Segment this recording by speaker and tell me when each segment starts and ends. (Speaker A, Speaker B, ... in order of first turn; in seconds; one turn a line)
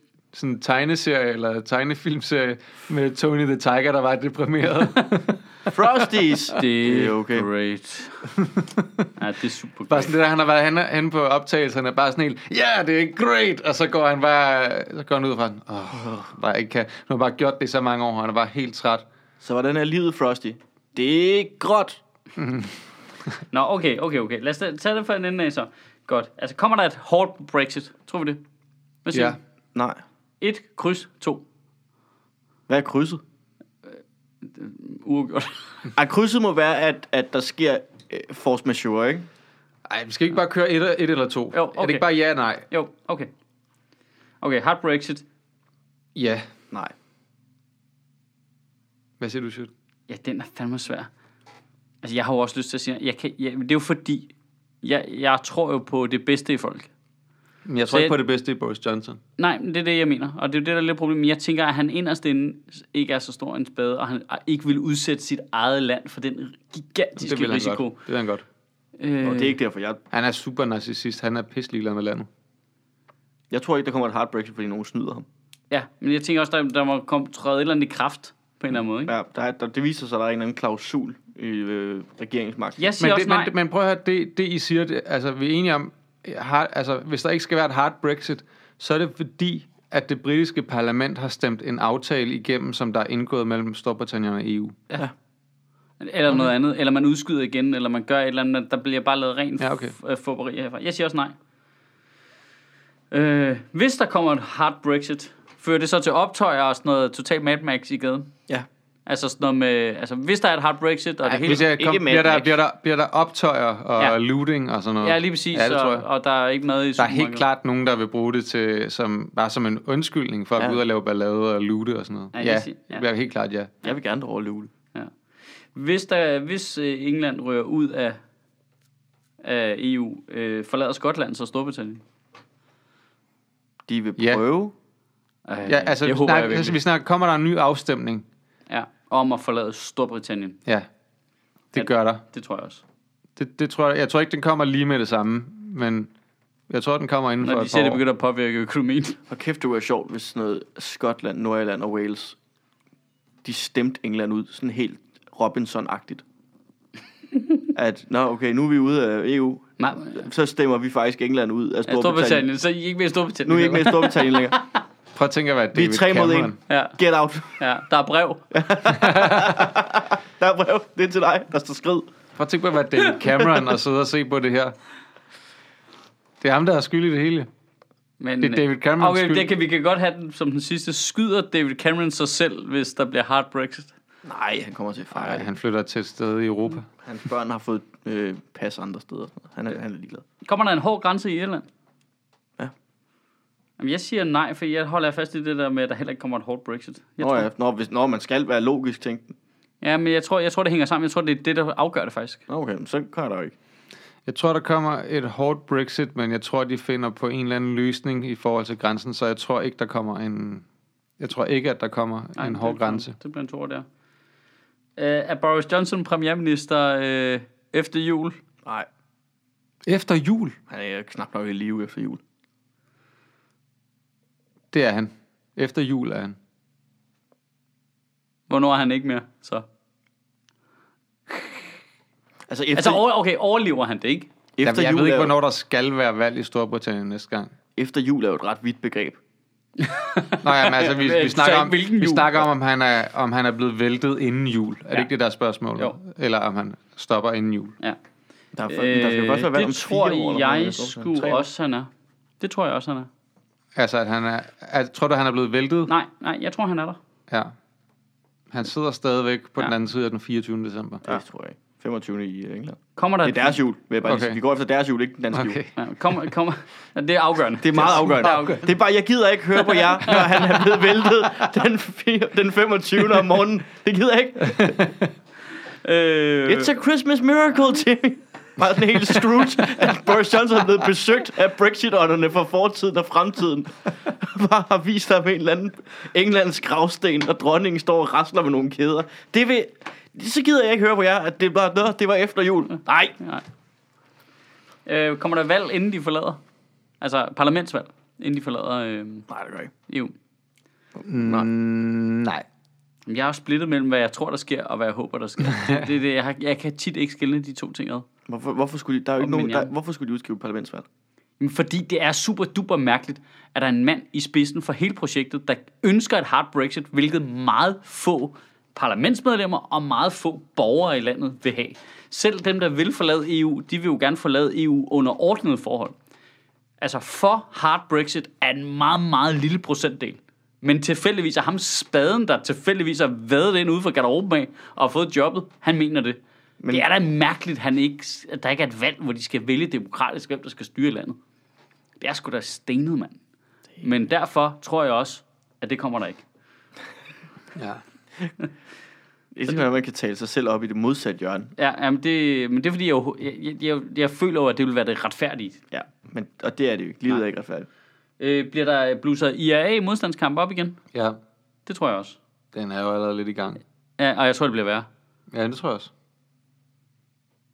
Speaker A: 0.3-6.1
Speaker B: 5.7-7.5
Speaker C: 6.5-8.3
Speaker A: 8.3-9.1
Speaker C: 9.2-10.1
Speaker A: 9.9-19.1
Speaker B: 19.4-22.0
Speaker A: 22.4-22.8
Speaker C: 23.5-28.4
Speaker C: 29.1-29.4
Speaker A: 29.1-29.4
Speaker B: 29.8-30.0
Speaker C: 30.4-31.4
Speaker B: 32.7-33.2
Speaker C: 34.4-35.8
Speaker B: 36.0-39.3
Speaker A: 39.9-42.7
Speaker C: 41.5-42.1
Speaker C: 42.7-43.3
Speaker C: 44.4-45.2
Speaker A: 46.1-46.5
Speaker A: 49.2-49.7
Speaker C: 50.1-51.1
Speaker C: 52.0-54.3
Speaker C: 54.8-56.9
Speaker A: 57.7-59.2
Speaker C: 57.9-58.1
Speaker C: 59.4-68.0
Speaker A: 67.2-68.5
Speaker C: 69.0-69.6
Speaker B: 69.2-70.0
Speaker A: 70.1-72.3
Speaker B: 73.5-75.3
Speaker C: 75.7-79.1
Speaker B: 79.1-82.9
Speaker C: 82.8-83.5
Speaker A: 83.0-94.8
Speaker C: 96.0-101.3
Speaker A: 96.3-96.5
Speaker A: 99.6-99.9
Speaker C: 103.1-108.3
Speaker C: 109.1-111.6
Speaker B: 111.2-112.5
Speaker A: 111.4-116.1
Speaker C: 115.0-117.4
Speaker A: 117.0-123.7
Speaker C: 122.3-123.0
Speaker B: 123.8-124.7
Speaker C: 125.8-128.2
Speaker C: 129.4-132.0
Speaker B: 133.9-134.7
Speaker C: 135.5-136.8
Speaker A: 135.7-138.3
Speaker C: 138.7-140.6
Speaker A: 141.7-142.2
Speaker C: 141.7-142.8
Speaker A: 143.4-146.1
Speaker A: 146.7-148.0
Speaker C: 147.4-149.2
Speaker B: 149.3-152.4
Speaker B: 153.4-156.2
Speaker B: 157.7-162.5
Speaker C: 159.8-160.3
Speaker C: 161.9-164.8
Speaker B: 163.5-164.6
Speaker A: 165.2-166.6
Speaker B: 165.8-167.6
Speaker C: 166.7-167.0
Speaker C: 167.5-168.5
Speaker B: 168.5-172.1
Speaker A: 169.0-169.7
Speaker A: 172.4-174.8
Speaker C: 173.3-173.6
Speaker A: 176.4-177.5
Speaker C: 178.2-183.9
Speaker A: 178.4-179.5
Speaker B: 184.2-185.5
Speaker A: 185.1-186.9
Speaker B: 187.0-190.2
Speaker C: 190.4-191.7
Speaker C: 193.8-197.5
Speaker B: 197.2-199.3
Speaker C: 199.8-202.4
Speaker B: 202.5-203.6
Speaker A: 204.3-210.7
Speaker A: 211.2-213.2
Speaker C: 212.4-213.8
Speaker C: 215.0-218.4
Speaker A: 219.9-220.6
Speaker B: 220.7-222.2
Speaker A: 224.7-226.4
Speaker C: 228.5-229.7
Speaker B: 232.5-233.0
Speaker C: 232.8-234.3
Speaker B: 234.6-235.3
Speaker A: 234.6-237.5
Speaker B: 237.8-239.2
Speaker C: 239.8-242.5
Speaker A: 240.4-247.8
Speaker B: 248.6-251.4
Speaker C: 248.7-251.9
Speaker C: 252.4-253.1
Speaker A: 253.8-255.9
Speaker C: 255.9-257.0
Speaker A: 258.5-261.2
Speaker B: 261.0-265.6
Speaker C: 263.0-263.6
Speaker A: 264.0-264.4
Speaker A: 265.3-265.7
Speaker C: 265.8-268.7
Speaker B: 267.6-274.9
Speaker A: 268.0-268.6
Speaker C: 269.7-270.2
Speaker A: 270.1-271.4
Speaker A: 274.6-275.1
Speaker C: 275.8-276.7
Speaker B: 276.5-293.1
Speaker C: 293.2-293.4
Speaker C: 294.9-296.4
Speaker C: 297.0-299.3
Speaker B: 299.3-299.7
Speaker C: 299.9-300.1
Speaker B: 301.0-301.5
Speaker A: 301.0-302.4
Speaker C: 303.1-308.1
Speaker B: 308.3-310.9
Speaker C: 309.2-309.7
Speaker C: 311.4-325.9
Speaker C: 326.8-336.2
Speaker B: 336.6-336.9
Speaker C: 336.7-341.2
Speaker C: 342.0-343.2
Speaker C: 343.8-346.2
Speaker A: 347.6-347.8
Speaker B: 349.4-351.5
Speaker C: 351.6-355.6
Speaker B: 355.7-357.7
Speaker C: 358.2-360.8
Speaker C: 361.7-362.2
Speaker A: 362.5-363.6
Speaker C: 364.0-364.9
Speaker A: 365.3-365.9